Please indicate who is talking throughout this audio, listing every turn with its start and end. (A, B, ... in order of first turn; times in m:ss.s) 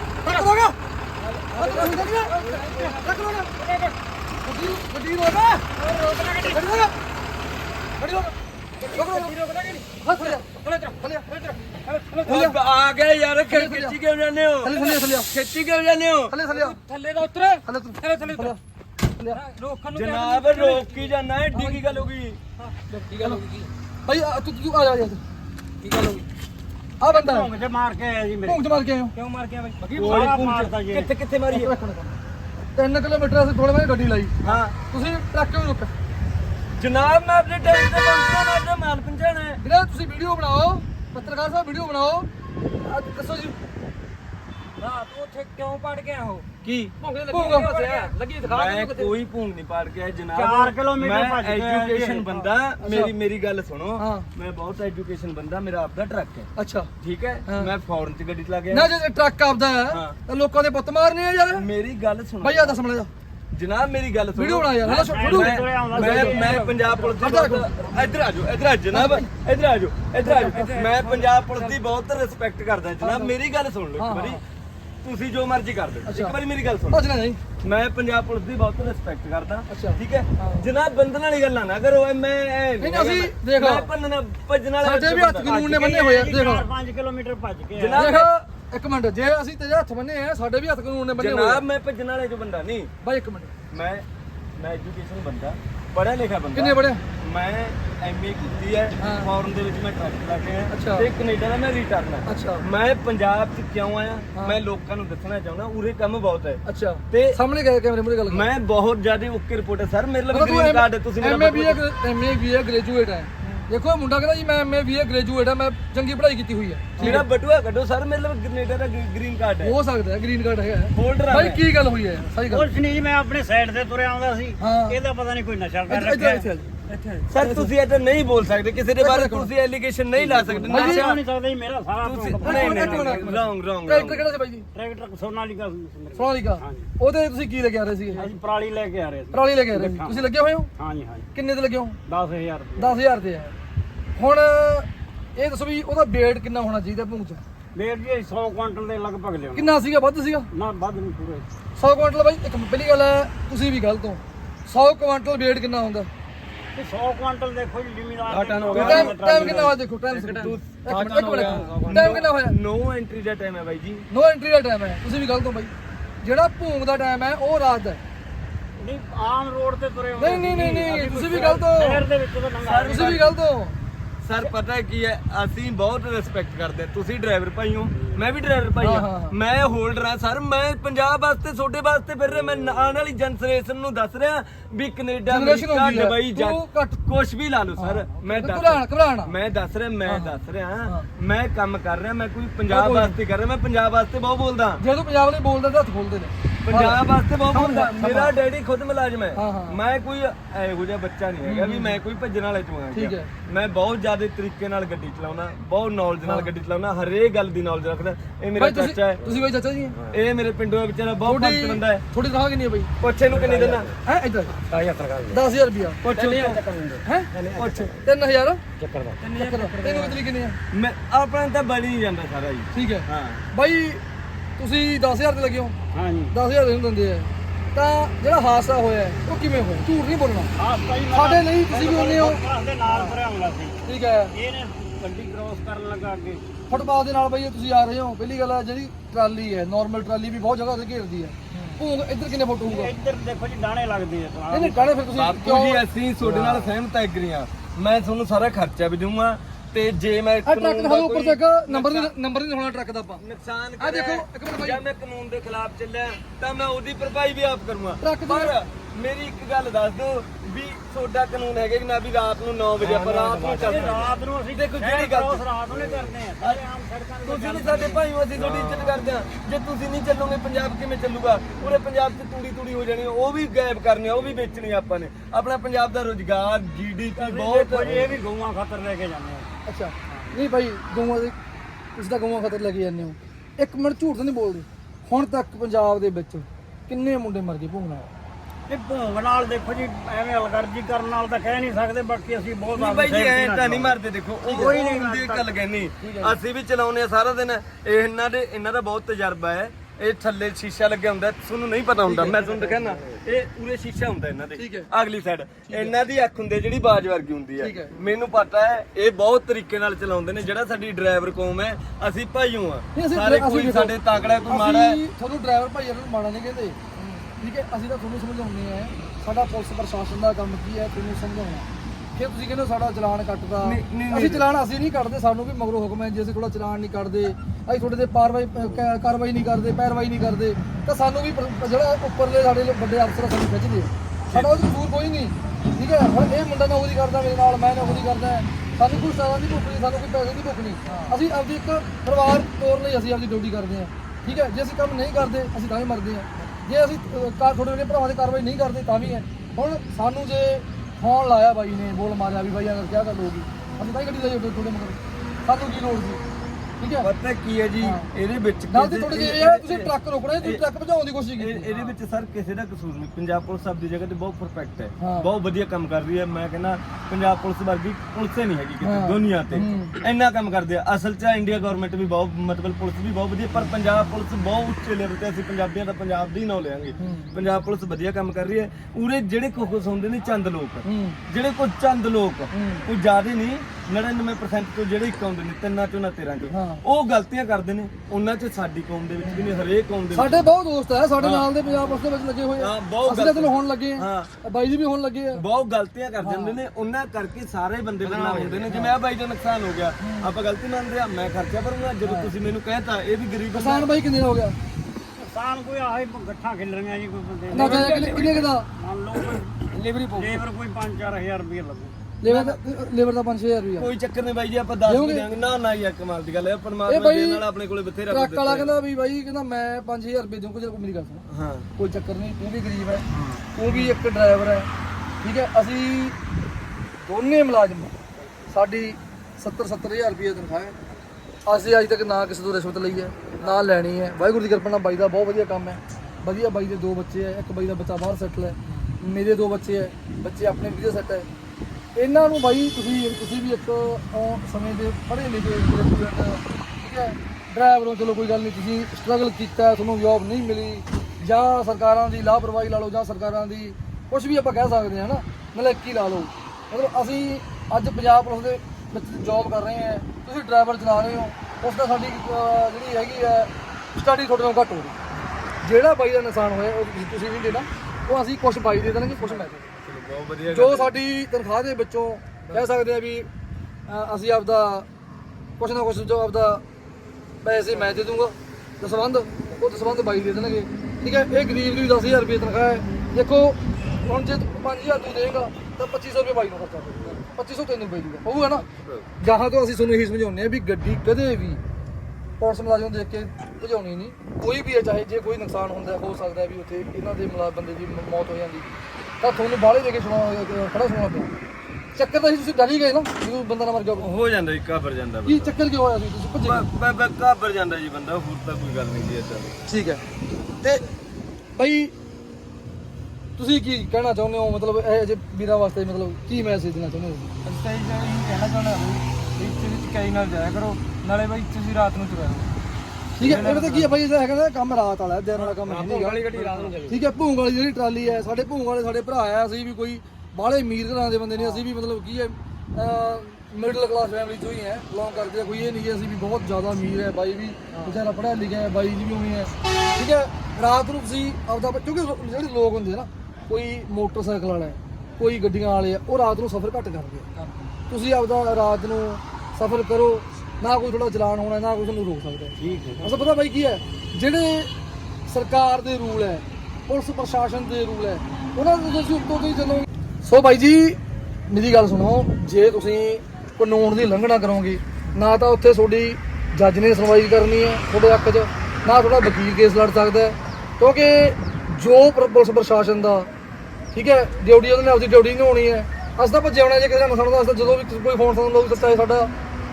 0:00.2-0:00.5 A
0:00.2-0:00.8 B
0:01.2-0:03.9 A
0:01.5-0:03.5 B
0:04.4-0:05.7 B
0:05.8-0:06.6 A
0:06.4-0:06.9 B
0:08.0-0:08.3 B
0:08.8-0:11.0 A
0:08.9-0:09.3 B
0:10.0-0:11.3 B
0:11.7-0:12.2 A
0:12.2-0:16.4 C
0:12.2-0:12.6 B
0:13.4-0:14.0 B
0:14.6-0:15.3 B
0:16.3-0:16.8 B
0:16.5-0:18.5 A
0:17.6-0:18.6 B
0:19.1-0:19.4 B
0:19.3-0:22.0 A
0:19.9-0:22.4 C
0:22.6-0:23.7 A
0:23.2-0:23.4 B
0:24.0-0:25.2 B
0:25.8-0:26.2 A
0:27.0-0:27.5 B
0:27.1-0:28.6 D
0:28.4-0:29.2 B
0:29.1-0:30.4 A
0:29.9-0:31.7 C
0:30.0-0:31.1 D
0:31.5-0:32.2 B
0:32.7-0:34.3 B
0:34.4-0:34.7 C
0:34.9-0:35.9 B
0:36.8-0:39.6 C
0:39.6-0:42.3 B
0:42.8-0:43.6 B
0:44.8-0:49.1 A
0:47.3-0:47.9 B
0:48.4-0:58.9 C
0:50.3-0:52.5 D
0:52.8-0:53.1 B
0:54.0-0:54.3 B
0:56.6-0:56.9 B
0:57.4-0:57.7 B
0:58.7-1:01.7 B
0:59.9-1:00.2 C
1:01.5-1:02.8 C
1:02.4-1:03.1 B
1:03.5-1:14.4 C
1:04.4-1:06.5 B
1:04.8-1:06.6 D
1:06.4-1:07.2 A
1:07.2-1:07.9 B
1:08.9-1:09.3 B
1:10.2-1:11.8 A
1:13.0-1:13.3 B
1:14.0-1:14.4 B
1:15.0-1:17.0 C
1:16.0-1:16.4 B
1:16.9-1:17.4 B
1:17.6-1:25.9 C
1:19.7-1:20.6 B
1:22.8-1:23.9 B
1:24.8-1:26.7 B
1:25.4-1:28.1 D
1:27.8-1:28.3 C
1:28.0-1:31.6 B
1:31.2-1:32.9 C
1:33.0-1:33.5 B
1:33.7-1:34.0 C
1:34.6-1:47.4 C
1:36.5-1:37.0 B
1:39.0-1:39.3 B
1:40.7-1:41.1 B
1:42.2-1:42.6 B
1:46.6-1:48.5 B
1:48.3-1:51.8 C
1:50.3-1:57.2 B
1:57.0-1:59.7 C
1:59.6-2:02.7 B
2:00.9-2:01.6 C
2:02.5-2:07.2 D
2:04.6-2:05.0 B
2:05.9-2:06.7 B
2:07.3-2:11.2 C
2:07.4-2:07.7 B
2:09.0-2:09.5 B
2:10.2-2:13.3 D
2:10.7-2:11.1 B
2:12.0-2:14.2 C
2:12.4-2:14.7 B
2:14.7-2:16.9 D
2:16.2-2:18.3 B
2:18.1-2:21.3 D
2:19.3-2:20.7 B
2:21.3-2:22.0 B
2:22.1-2:23.0 D
2:22.8-2:23.5 B
2:24.2-2:27.4 B
2:27.7-2:29.7 D
2:29.5-2:30.5 B
2:30.5-2:31.5 D
2:31.8-2:36.1 B
2:36.7-2:39.8 D
2:38.3-2:44.1 C
2:38.7-2:42.5 B
2:41.3-2:42.2 D
2:44.1-2:48.0 B
2:48.8-2:53.4 D
2:50.2-2:52.1 B
2:52.6-2:53.3 C
2:52.8-2:53.8 B
2:54.2-3:14.8 C
2:57.9-2:58.2 D
2:58.8-2:59.3 B
3:05.3-3:07.0 B
3:07.8-3:09.3 B
3:10.0-3:10.3 B
3:12.7-3:13.2 B
3:14.8-3:18.4 B
3:16.6-3:29.2 C
3:19.3-3:19.8 B
3:21.4-3:22.0 B
3:22.9-3:23.3 B
3:26.2-3:26.5 B
3:28.6-3:30.0 B
3:30.1-3:32.0 C
3:31.2-3:32.9 B
3:33.0-3:33.9 C
3:33.3-3:33.9 A
3:34.0-3:34.5 B
3:34.7-3:35.4 A
3:35.3-3:36.0 B
3:36.0-3:36.6 C
3:36.1-3:38.0 A
3:37.5-3:37.9 C
3:38.0-3:38.6 B
3:38.8-3:40.2 A
3:39.4-3:40.6 B
3:40.7-3:43.4 C
3:42.7-3:44.0 B
3:44.6-3:45.8 B
3:45.9-3:46.3 D
3:46.3-3:50.5 B
3:50.6-3:56.4 D
3:51.1-3:53.2 B
3:53.8-3:54.3 B
3:56.7-4:02.9 B
4:02.6-4:05.0 D
4:04.5-4:05.8 B
4:05.1-4:12.1 C
4:06.2-4:06.6 D
4:10.4-4:13.2 B
4:13.2-4:25.4 C
4:13.8-4:14.8 B
4:18.0-4:18.6 B
4:22.8-4:24.1 A
4:23.0-4:28.0 D
4:27.2-4:38.1 C
4:28.4-4:29.0 A
4:37.2-4:39.5 D
4:37.9-4:38.2 A
4:39.6-4:41.3 B
4:42.0-4:48.1 B
4:48.7-4:55.6 D
4:52.7-5:15.0 C
4:56.0-4:56.3 B
5:02.2-5:03.0 A
5:04.6-5:04.9 B
5:05.7-5:05.9 B
5:07.6-5:07.9 B
5:12.9-5:13.9 B
5:14.5-5:56.2 B
5:23.6-5:24.5 C
5:34.3-5:34.6 C
5:40.9-5:41.1 A
5:56.8-5:57.1 B
5:57.0-6:00.6 C
5:57.8-5:58.1 B
5:58.7-6:01.7 B
6:01.4-6:30.4 C
6:05.0-6:05.3 B
6:08.8-6:10.0 B
6:17.0-6:17.3 B
6:20.8-6:21.2 B
6:22.5-6:22.9 B
6:26.5-6:26.8 B
6:30.1-6:35.4 B
6:31.2-6:31.5 C
6:32.6-6:34.3 C
6:35.3-6:43.9 C
6:36.2-6:36.6 B
6:38.0-6:38.9 A
6:40.0-6:40.3 B
6:42.0-6:42.3 B
6:43.5-6:44.6 B
6:45.2-6:51.9 D
6:47.5-6:48.7 B
6:47.5-6:48.5 C
6:47.7-6:48.1 A
6:49.7-6:50.4 A
6:52.2-6:53.9 B
6:52.3-6:52.5 C
6:53.8-6:58.7 C
6:54.8-6:55.3 B
6:56.8-6:57.4 B
6:58.1-7:01.2 B
7:01.3-7:01.7 C
7:01.8-7:04.7 B
7:03.7-7:03.9 C
7:05.2-7:06.2 B
7:07.0-7:07.9 B
7:08.5-7:10.8 B
7:11.4-7:21.3 B
7:22.0-7:44.9 B
7:45.6-7:49.6 B
7:49.6-7:50.9 C
7:50.5-7:53.3 B
7:53.9-7:54.9 B
7:55.6-7:56.6 B
7:57.4-8:08.7 B
8:09.2-8:11.6 B
8:12.4-8:18.7 B
8:19.2-8:21.3 B
8:22.0-8:24.1 B
8:24.0-8:25.5 C
8:25.2-8:26.6 B
8:26.4-8:29.5 C
8:29.6-8:30.0 B
8:30.6-8:30.9 B
8:31.6-8:31.9 B
8:33.4-8:37.3 B
8:37.4-8:42.5 A
8:43.2-8:46.2 B
8:43.2-8:43.9 A
8:45.4-8:47.0 A
8:46.3-8:46.7 C
8:46.9-9:07.3 B
9:07.4-9:07.7 A
9:07.9-9:14.7 B
9:12.6-9:13.2 D
9:15.3-9:33.3 B
9:33.9-9:39.3 B